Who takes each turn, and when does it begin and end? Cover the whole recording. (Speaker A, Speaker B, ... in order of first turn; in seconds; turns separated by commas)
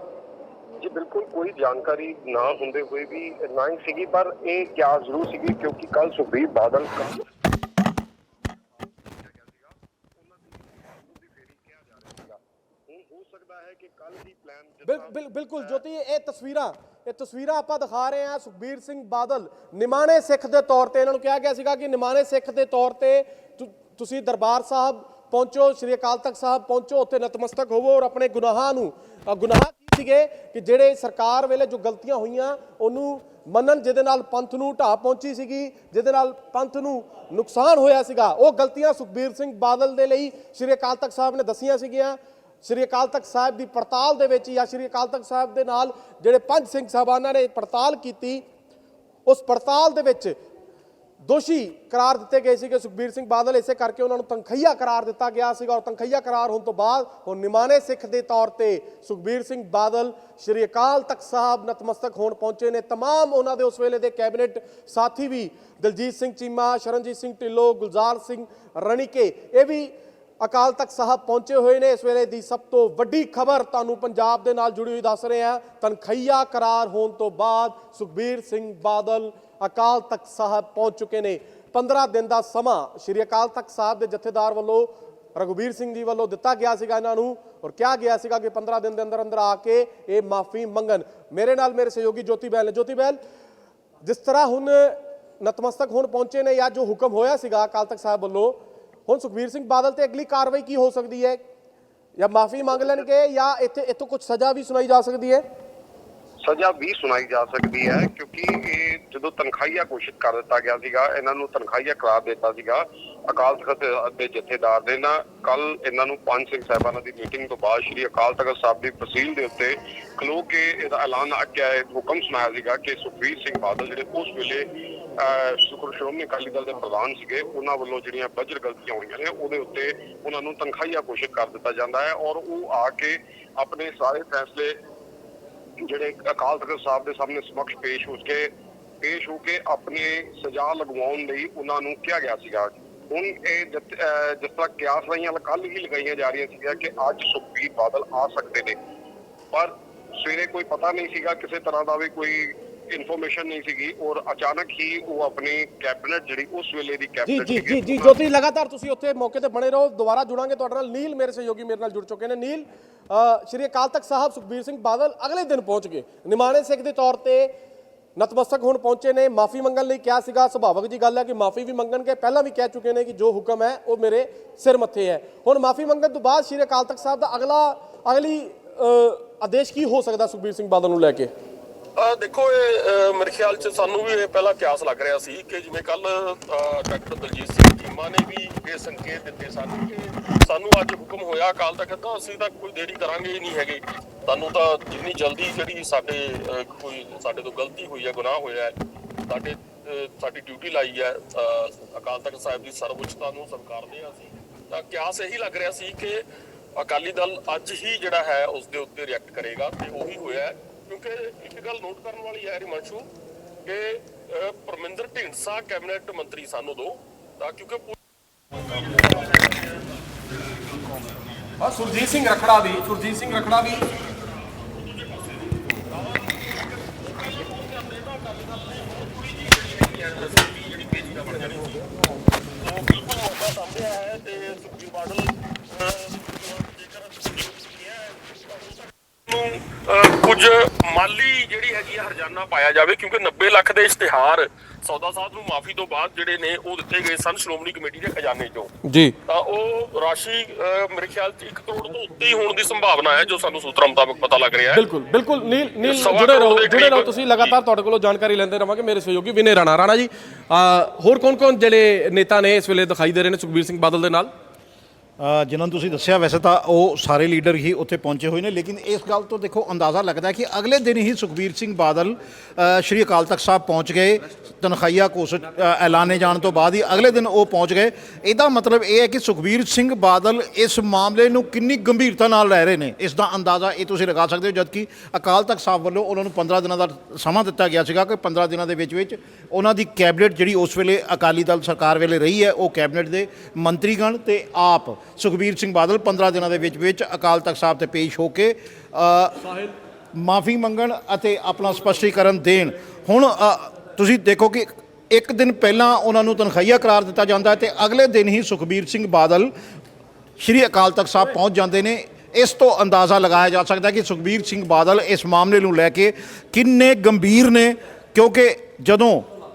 Speaker A: 0.8-7.2, Speaker A: 9.1-15.8, Speaker B: 14.8-48.5, Speaker B: 49.3-50.4, Speaker B: 51.2-93.2, Speaker B: 94.0-101.4, Speaker B: 102.2-105.4, Speaker A: 106.4-134.8, Speaker A: 135.8-138.5, Speaker A: 139.0-148.8, Speaker A: 149.5-158.2, Speaker B: 157.3-167.5, Speaker B: 168.2-181.3, Speaker C: 182.0-198.8, Speaker C: 199.3-206.2, Speaker C: 206.8-213.1, Speaker C: 213.7-218.0, Speaker C: 218.5-219.5, Speaker B: 221.6-223.9, Speaker C: 225.9-226.2, Speaker C: 227.0-231.9, Speaker C: 232.6-248.7, Speaker B: 248.8-249.2, Speaker C: 249.3-254.8, Speaker B: 254.7-264.3, Speaker C: 255.8-257.5, Speaker D: 265.2-309.5, Speaker D: 310.4-319.3